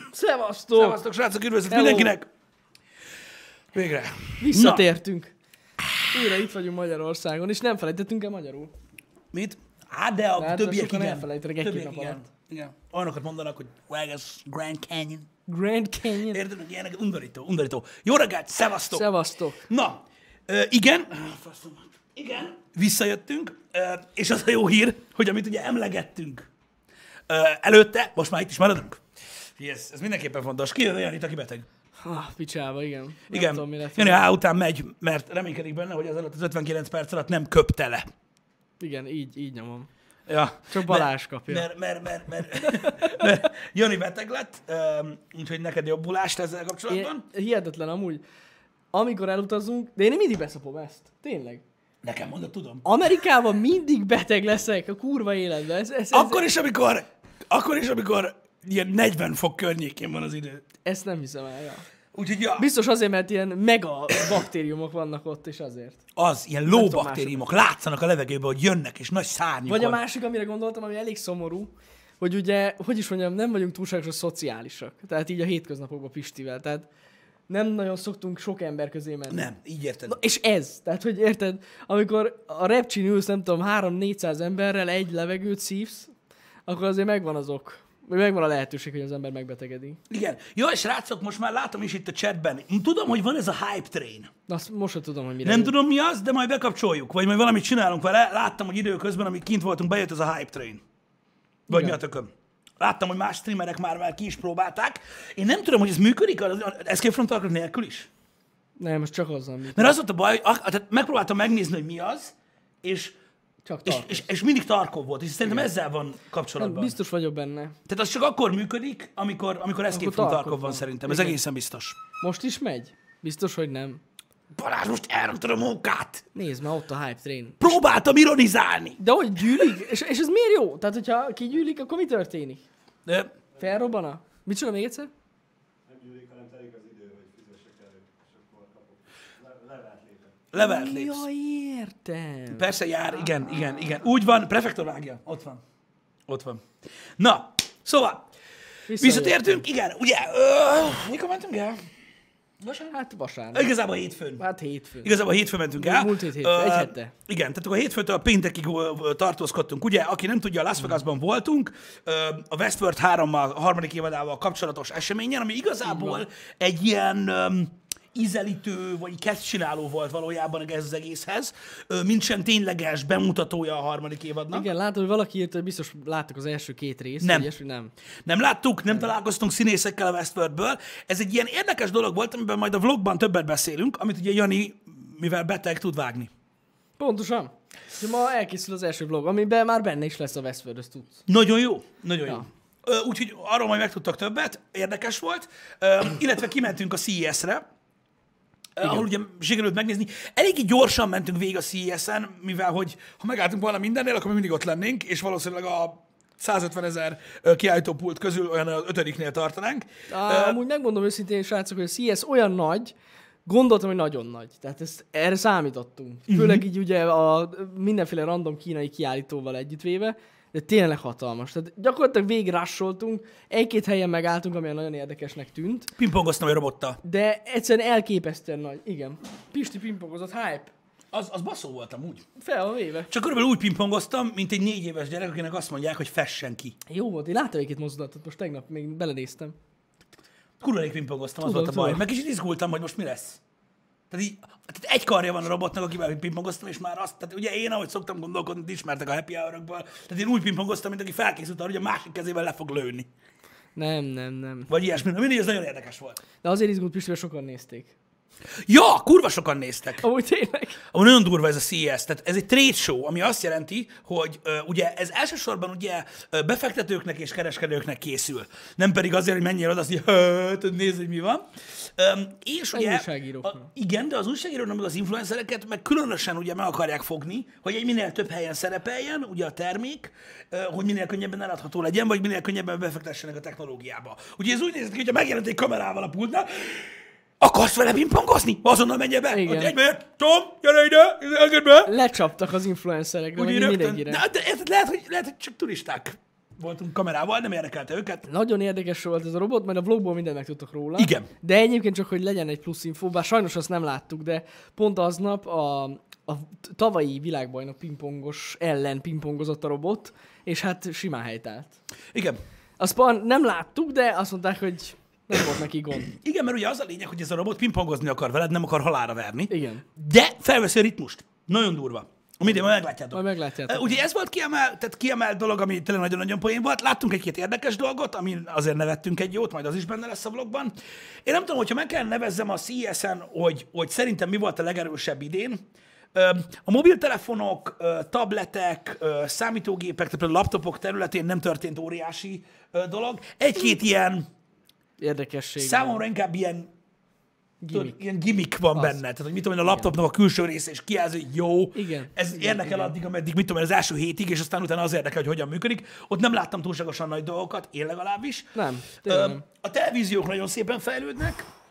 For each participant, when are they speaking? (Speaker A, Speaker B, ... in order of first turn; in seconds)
Speaker A: 0.1-1.0, 1.7-2.1, 4.4-5.3, 6.1-8.7, 10.4-12.2, 15.5-16.4, 18.9-19.6, 32.0-34.2, 38.8-39.9, 40.7-41.7, 42.6-43.3, 46.9-48.2, 48.9-51.6, 52.8-56.4, 60.8-61.8, 62.6-66.0, 66.7-67.4, 69.7-76.9, 77.5-79.4, 80.1-86.1, 86.7-90.0, 94.5-95.7, 101.7-102.0, 108.8-110.0, 113.6-114.2, 116.6-117.7, 119.9-121.4, 122.2-124.0, 126.3-127.8, 129.0-132.6, 133.6-135.1, 140.6-142.7, 148.9-149.6, 152.9-153.7, 154.4-155.1, 155.8-157.1, 165.8-166.2, 174.5-177.9, 187.0-191.2, 210.1-212.9, 213.4-225.9, 227.0-230.7, 232.4-233.1, 236.9-239.5, 241.4-242.0, 253.8-254.7, 256.4-257.9, 260.0-260.8, 272.7-273.7, 289.3-289.7, 291.9-294.2, 298.3-311.7, 312.8-316.1, 319.5-319.8, 323.1-324.0, 345.0-346.0, 347.6-348.0, 348.7-349.0, 351.7-352.9, 358.5-359.4
Speaker B: 0.7-2.3, 3.7-4.8, 9.3-15.3, 16.2-19.1, 19.6-26.5, 27.3-29.0, 29.6-31.6, 33.3-38.1, 40.3-47.2, 52.0-52.8, 56.1-60.6, 62.1-62.7, 66.2-70.0, 79.3-80.2, 90.1-94.3, 95.4-100.8, 101.7-108.1, 109.7-113.2, 113.8-116.9, 117.9-122.0, 124.5-126.2, 127.6-129.0, 133.1-133.3, 140.5-141.2, 142.5-145.6, 146.3-146.7, 147.2-148.3, 149.0-151.8, 152.6-152.9, 153.5-154.4, 155.0-174.7, 177.2-177.5, 178.2-186.3, 191.3-197.6, 198.8-210.6, 216.3-216.6, 226.0-227.0, 231.1-232.2, 233.1-236.8, 240.6-243.4, 244.1-253.1, 254.7-256.2, 258.7-260.1, 260.8-291.9, 293.4-298.2, 301.0-301.3, 312.1-312.4, 316.1-330.7, 331.2-344.3, 345.6-346.7, 347.7-358.5, 359.0-361.4
Speaker C: 133.6-133.9, 135.8-140.4